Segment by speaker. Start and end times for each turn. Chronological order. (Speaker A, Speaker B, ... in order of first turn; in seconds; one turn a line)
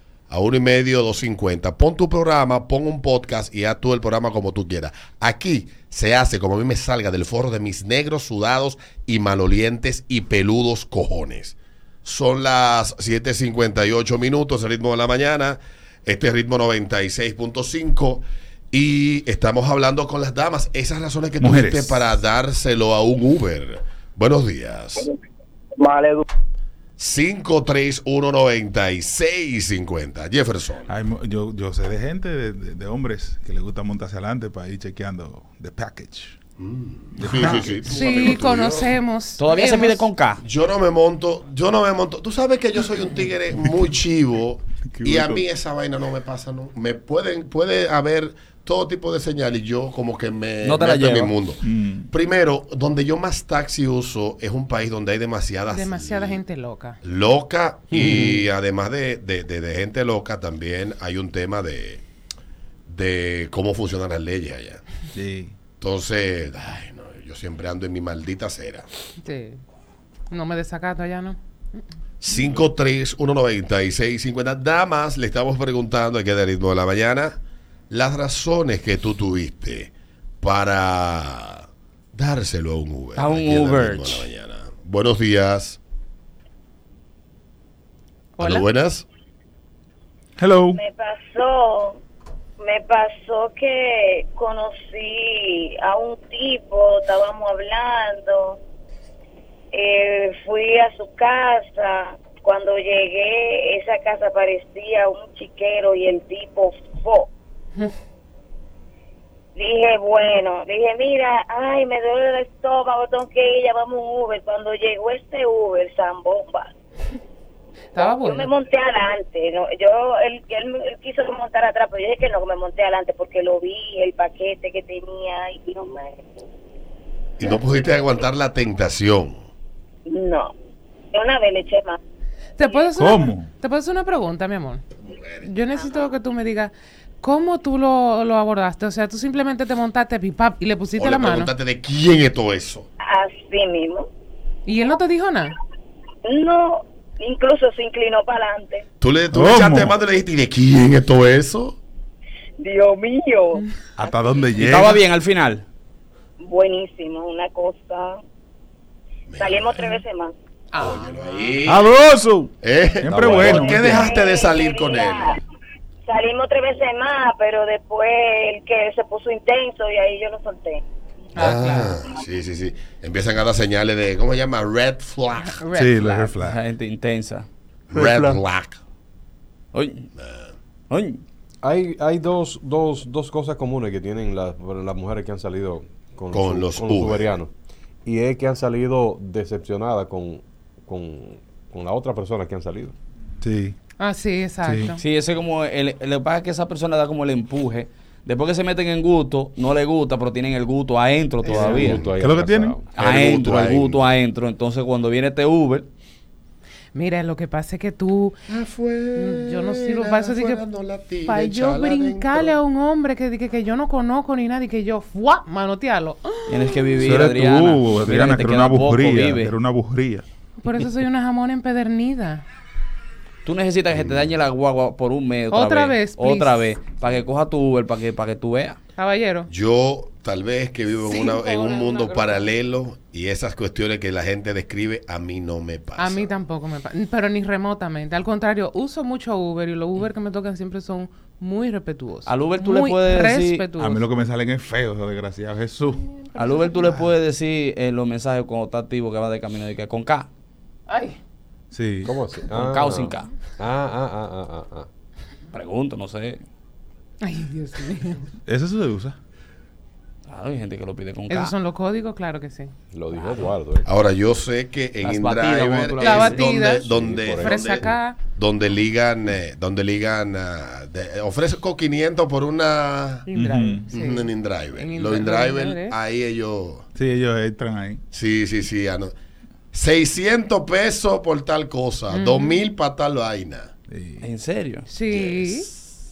Speaker A: 0.3-25.1
Speaker B: 21.4-22.1
Speaker A: 27.0-30.9
Speaker B: 30.9-36.4
Speaker A: 36.6-38.9
Speaker B: 37.2-37.9
Speaker C: 37.9-40.1
Speaker D: 39.4-40.4
Speaker A: 40.4-56.4
Speaker B: 43.6-43.9
Speaker B: 44.9-45.5
Speaker D: 50.6-51.3
Speaker B: 51.6-52.1
Speaker C: 55.7-57.0
Speaker A: 57.0-62.0
Speaker E: 57.9-58.4
Speaker A: 62.9-64.8
Speaker B: 65.2-65.5
Speaker A: 65.8-68.9
Speaker C: 69.2-69.6
Speaker C: 70.3-71.4
Speaker A: 72.2-77.4
Speaker A: 77.9-85.8
Speaker D: 83.2-84.3
Speaker C: 88.4-88.7
Speaker A: 88.4-89.1
Speaker B: 90.4-90.8
Speaker F: 90.8-92.0
Speaker F: 92.6-98.6
Speaker F: 99.7-107.3
Speaker F: 109.5-116.7
Speaker C: 117.9-118.5
Speaker F: 118.0-126.2
Speaker A: 127.4-129.5
Speaker F: 130.1-130.6
Speaker F: 131.1-132.0
Speaker C: 132.6-134.8
Speaker B: 133.0-133.5
Speaker A: 135.1-135.4
Speaker C: 135.4-141.5
Speaker F: 135.7-136.1
Speaker A: 141.0-142.9
Speaker F: 143.0-144.1
Speaker C: 144.7-145.6
Speaker F: 146.2-148.8
Speaker A: 149.0-151.8
Speaker B: 149.3-149.9
Speaker F: 152.6-153.6
Speaker B: 154.0-155.1
Speaker D: 154.6-155.6
Speaker F: 156.4-158.2
Speaker A: 159.3-160.0
Speaker F: 159.4-160.4
Speaker C: 160.7-161.1
Speaker A: 160.8-161.9
Speaker B: 161.7-164.1
Speaker A: 162.6-165.3
Speaker E: 163.1-163.4
Speaker F: 163.8-165.3
Speaker F: 166.1-170.8
Speaker C: 171.3-172.0
Speaker A: 171.4-175.6
Speaker C: 175.4-176.4
Speaker B: 175.8-176.6
Speaker D: 176.4-177.5
Speaker A: 177.9-178.8
Speaker B: 177.9-178.4
Speaker D: 179.7-180.1
Speaker A: 180.2-180.6
Speaker D: 180.9-181.2
Speaker E: 181.6-187.5
Speaker A: 186.3-187.3
Speaker E: 188.1-192.9
Speaker B: 193.4-193.8
Speaker C: 194.0-195.0
Speaker B: 194.6-195.0
Speaker D: 195.0-202.1
Speaker E: 201.4-202.8
Speaker B: 201.6-202.8
Speaker D: 202.9-205.9
Speaker A: 203.0-204.0
Speaker C: 206.9-208.4
Speaker A: 208.5-212.5
Speaker C: 209.2-210.6
Speaker C: 211.2-217.1
Speaker D: 216.5-219.5
Speaker B: 217.0-220.2
Speaker C: 220.6-222.4
Speaker D: 223.4-228.8
Speaker A: 223.9-224.3
Speaker C: 225.5-226.8
Speaker C: 229.0-229.5
Speaker A: 229.5-236.3
Speaker C: 231.0-232.5
Speaker C: 236.0-244.1
Speaker D: 242.3-243.7
Speaker B: 243.8-246.1
Speaker D: 246.4-250.3
Speaker C: 246.4-246.7
Speaker C: 250.9-251.2
Speaker B: 251.7-252.2
Speaker E: 252.0-254.9
Speaker D: 252.5-253.3
Speaker D: 255.5-256.4
Speaker C: 257.2-258.3
Speaker B: 258.5-259.2
Speaker D: 260.3-261.5
Speaker C: 261.3-262.7
Speaker E: 262.9-263.9
Speaker A: 263.9-273.3
Speaker D: 265.0-266.6
Speaker C: 266.0-268.2
Speaker E: 266.9-268.0
Speaker C: 273.3-276.0
Speaker B: 273.3-273.9
Speaker A: 273.9-276.9
Speaker B: 277.0-278.0
Speaker A: 278.1-279.1
Speaker A: 279.7-283.7
Speaker C: 282.1-282.6
Speaker B: 283.9-284.3
Speaker D: 284.2-284.9
Speaker C: 284.9-285.7
Speaker A: 285.1-285.7